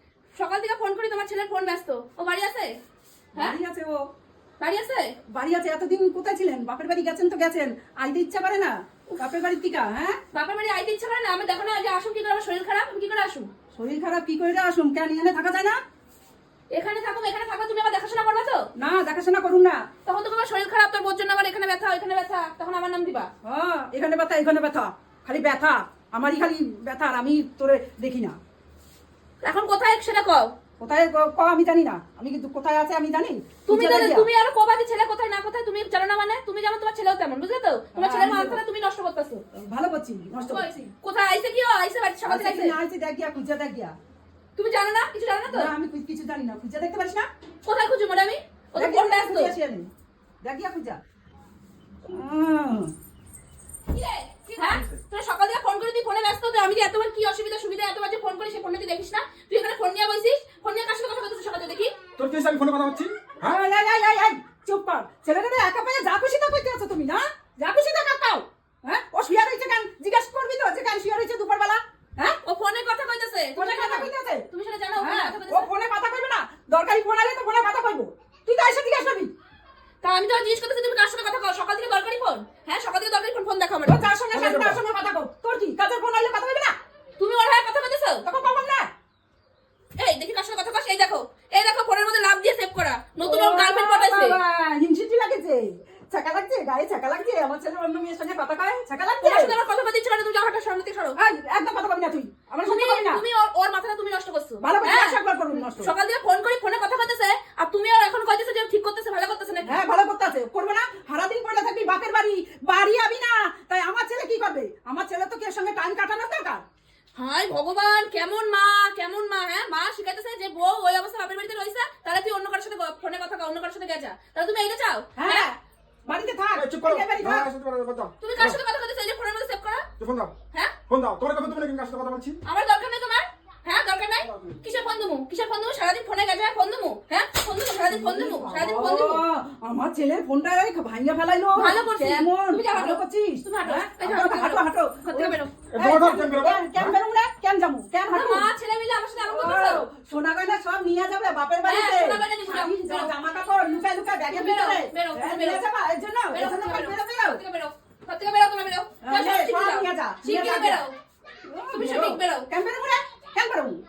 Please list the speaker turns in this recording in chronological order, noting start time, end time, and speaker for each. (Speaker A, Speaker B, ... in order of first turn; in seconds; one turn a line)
Speaker A: 0.3-2.8
Speaker B: 3.4-4.1
Speaker A: 4.6-5.2
Speaker B: 5.3-10.2
Speaker A: 10.3-13.5
Speaker B: 13.7-15.8
Speaker A: 16.7-18.7
Speaker B: 18.8-19.9
Speaker A: 20.0-23.3
Speaker B: 23.4-28.4
Speaker A: 29.4-30.5
Speaker B: 30.8-34.3
Speaker A: 33.7-39.4
Speaker B: 37.9-38.6
Speaker B: 39.5-40.7
Speaker A: 40.4-42.7
Speaker B: 42.2-43.9
Speaker A: 44.6-45.7
Speaker B: 45.5-47.3
Speaker A: 47.6-49.5
Speaker B: 48.8-49.9
Speaker B: 50.4-51.0
Speaker B: 52.0-52.9
Speaker A: 53.9-61.9
Speaker C: 62.2-63.6
Speaker B: 63.4-72.4
Speaker A: 72.4-75.7
Speaker B: 73.5-74.5
Speaker B: 75.0-79.3
Speaker A: 80.0-84.1
Speaker B: 83.8-86.7
Speaker C: 84.3-84.8
Speaker A: 87.2-88.2
Speaker B: 88.2-88.9
Speaker A: 90.0-94.4
Speaker B: 93.2-99.5
Speaker A: 99.2-101.2
Speaker B: 101.2-103.2
Speaker A: 102.6-109.8
Speaker B: 104.6-105.9
Speaker B: 109.6-116.6
Speaker A: 117.2-125.5
Speaker B: 125.2-127.5
Speaker C: 126.5-128.6
Speaker A: 128.2-129.9
Speaker C: 130.0-130.3
Speaker C: 130.9-132.4
Speaker A: 132.4-139.2
Speaker C: 134.2-134.6
Speaker B: 137.8-148.5
Speaker A: 141.6-145.5
Speaker C: 145.7-146.9
Speaker A: 148.1-149.9
Speaker B: 149.3-157.4
Speaker A: 151.7-153.1
Speaker A: 154.3-155.6
Speaker A: 156.3-161.0
Speaker B: 159.0-160.8
Speaker B: 161.4-163.8
Speaker A: 161.7-162.5